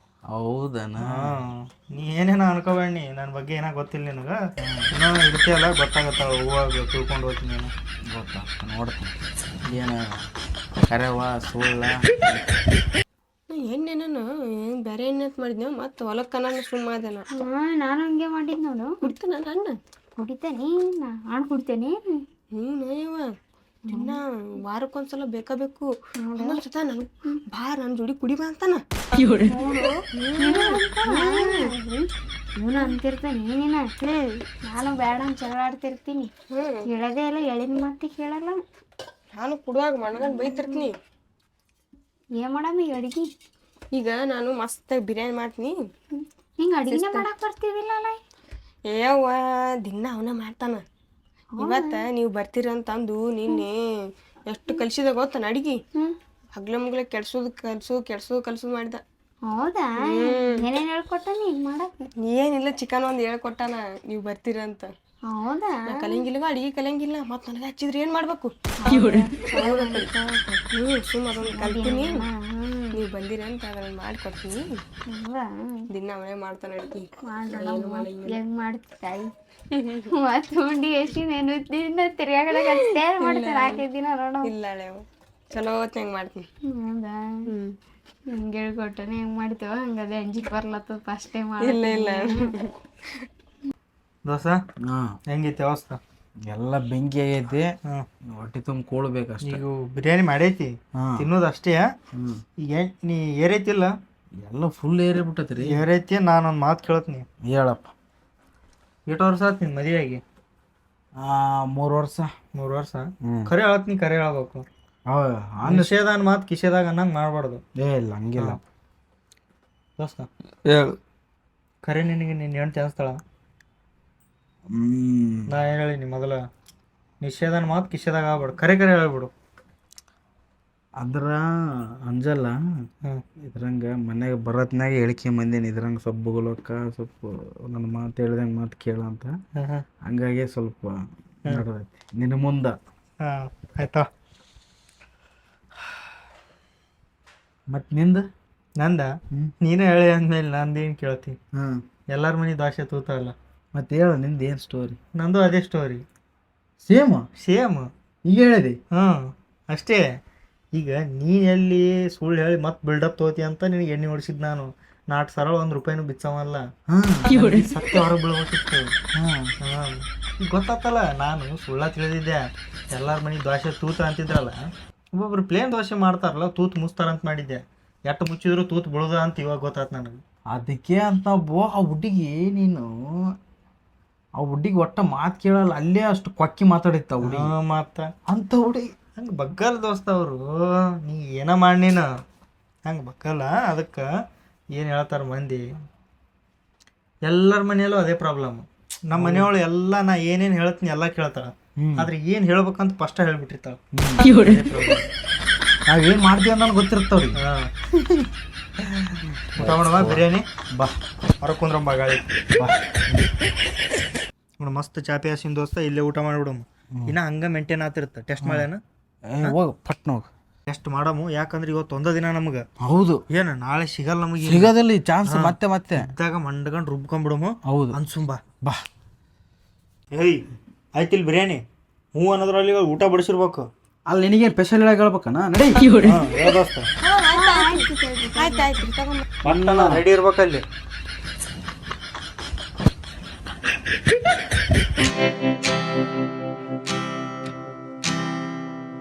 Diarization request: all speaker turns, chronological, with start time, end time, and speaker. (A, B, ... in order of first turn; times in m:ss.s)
0:00.3-0:01.4 A
0:01.0-0:04.4 B
0:04.6-0:04.9 A
0:04.9-0:07.7 B
0:08.1-0:09.1 A
0:09.6-0:10.2 A
0:10.9-0:12.4 A
0:13.5-0:17.3 C
0:17.3-0:19.0 D
0:19.0-0:19.8 C
0:20.2-0:22.2 D
0:22.6-0:23.3 C
0:23.9-0:24.2 D
0:23.9-0:31.7 C
0:26.2-0:26.6 D
0:30.4-0:32.0 D
0:32.6-0:33.9 D
0:34.1-0:34.4 C
0:34.6-0:36.3 D
0:36.5-0:36.8 C
0:36.9-0:38.6 D
0:39.4-0:40.9 C
0:40.2-0:40.9 D
0:42.4-0:43.2 D
0:43.9-0:45.8 C
0:46.1-0:48.2 D
0:46.9-0:47.3 C
0:48.9-0:50.8 C
0:51.6-0:52.0 D
0:51.6-0:53.8 C
0:54.5-0:55.8 C
0:56.5-0:59.0 C
0:59.5-1:02.1 D
1:00.0-1:00.6 C
1:02.3-1:04.9 C
1:05.3-1:06.2 D
1:05.9-1:12.2 C
1:08.8-1:10.1 D
1:11.4-1:13.0 D
1:12.9-1:14.8 C
1:15.1-1:15.8 D
1:15.9-1:18.4 C
1:17.3-1:19.3 D
1:19.8-1:20.1 C
1:20.1-1:24.5 D
1:22.8-1:23.8 C
1:24.4-1:26.5 C
1:26.7-1:27.2 D
1:27.5-1:27.8 C
1:28.3-1:32.5 D
1:31.6-1:32.8 C
1:34.2-1:34.6 B
1:34.8-1:35.1 A
1:35.3-1:36.0 B
1:36.5-1:37.7 A
1:38.3-1:39.6 A
1:39.4-1:41.8 B
1:41.0-1:41.3 A
1:42.1-1:42.4 A
1:42.7-1:43.9 B
1:44.4-1:45.8 A
1:45.6-1:47.2 B
1:47.4-1:47.9 A
1:49.1-1:50.2 B
1:51.2-1:52.3 A
1:52.5-1:54.6 B
1:55.1-1:55.9 A
1:55.6-1:57.6 B
1:57.8-1:58.6 A
2:00.0-2:00.3 B
2:00.6-2:00.9 A
2:01.8-2:03.2 B
2:04.7-2:05.5 A
2:05.5-2:06.4 B
2:07.2-2:09.3 B
2:11.0-2:11.5 A
2:12.0-2:12.5 A
2:13.4-2:19.3 A
2:19.6-2:19.8 B
2:20.0-2:20.9 A
2:21.5-2:22.8 A
2:23.2-2:24.0 B
2:27.7-2:28.2 A
2:28.8-2:29.1 B
2:29.6-2:31.4 B
2:31.6-2:31.8 A
2:32.1-2:33.4 B
2:33.8-2:35.0 A
2:35.1-2:36.0 B
2:36.8-2:37.3 A
2:37.4-2:37.9 B
2:38.3-2:38.8 A
2:38.9-2:40.0 B
2:40.7-2:46.6 B
2:46.9-2:47.4 A
2:47.3-2:48.9 B
2:49.2-2:49.5 A
2:49.6-2:54.5 B
2:55.1-3:00.2 B
3:00.5-3:02.9 A
3:04.4-3:07.5 A
3:07.2-3:08.1 B
3:08.3-3:08.9 A
3:09.2-3:10.4 B
3:11.0-3:12.0 B
3:12.9-3:14.0 B
3:14.7-3:15.6 B
3:17.2-3:23.8 B
3:19.1-3:19.5 A
3:21.8-3:22.1 A
3:23.9-3:24.4 A
3:24.4-3:25.1 B
3:25.9-3:27.4 A
3:27.4-3:27.7 B
3:28.0-3:28.3 A
3:28.9-3:30.2 A
3:29.6-3:30.5 B
3:31.4-3:32.3 B
3:32.6-3:33.3 A
3:34.6-3:38.8 B
3:38.4-3:38.7 A
3:39.3-3:40.3 A
3:40.7-3:42.6 B
3:42.8-3:43.2 A
3:43.3-3:44.7 B
3:44.4-3:46.1 A
3:45.2-3:48.4 B
3:47.7-3:48.0 A
3:50.1-3:50.4 B
3:51.0-3:51.6 B
3:52.2-3:53.7 B
3:54.1-3:55.9 A
3:56.0-3:56.9 B
3:57.0-3:59.3 C
3:57.3-3:58.9 D
3:59.4-4:00.6 B
3:59.4-4:00.0 A